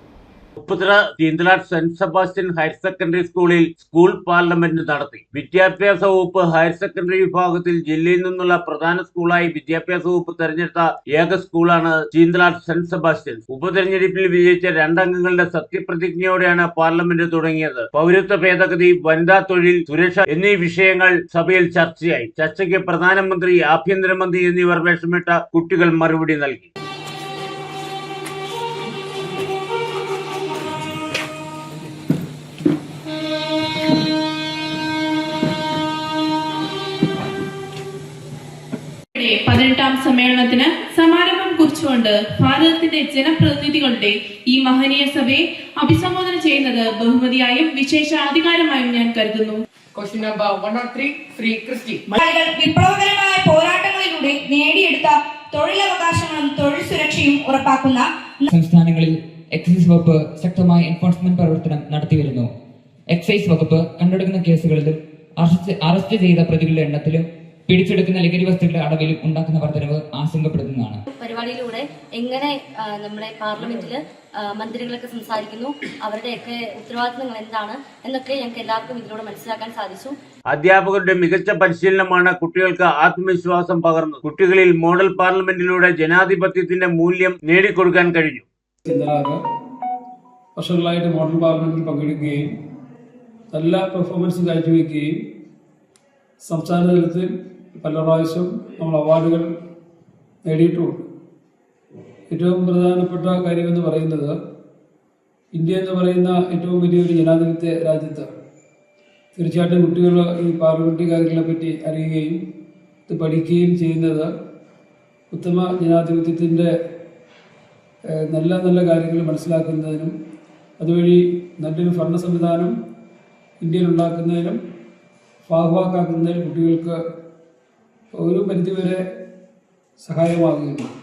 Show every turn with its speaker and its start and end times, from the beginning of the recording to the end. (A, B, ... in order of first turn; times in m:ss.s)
0:00.6-0:26.7 A
0:39.2-0:49.6 B
0:50.0-0:52.0 C
0:52.1-0:58.1 D
0:58.5-1:02.5 E
1:03.1-1:11.0 E
1:11.1-1:20.1 F
1:20.5-1:28.4 A
1:28.8-1:29.4 G
1:30.6-1:32.5 G
1:33.5-1:35.1 G
1:36.4-1:39.5 G
1:40.4-1:41.0 G
1:42.3-1:44.4 G
1:45.5-1:48.3 G
1:49.3-1:52.4 G
1:53.1-1:54.3 G
1:55.3-1:56.7 G
1:58.3-2:00.1 G
2:00.8-2:02.7 G
2:03.6-2:04.6 G
2:05.4-2:07.0 G
2:08.2-2:09.0 G
2:10.0-2:10.9 G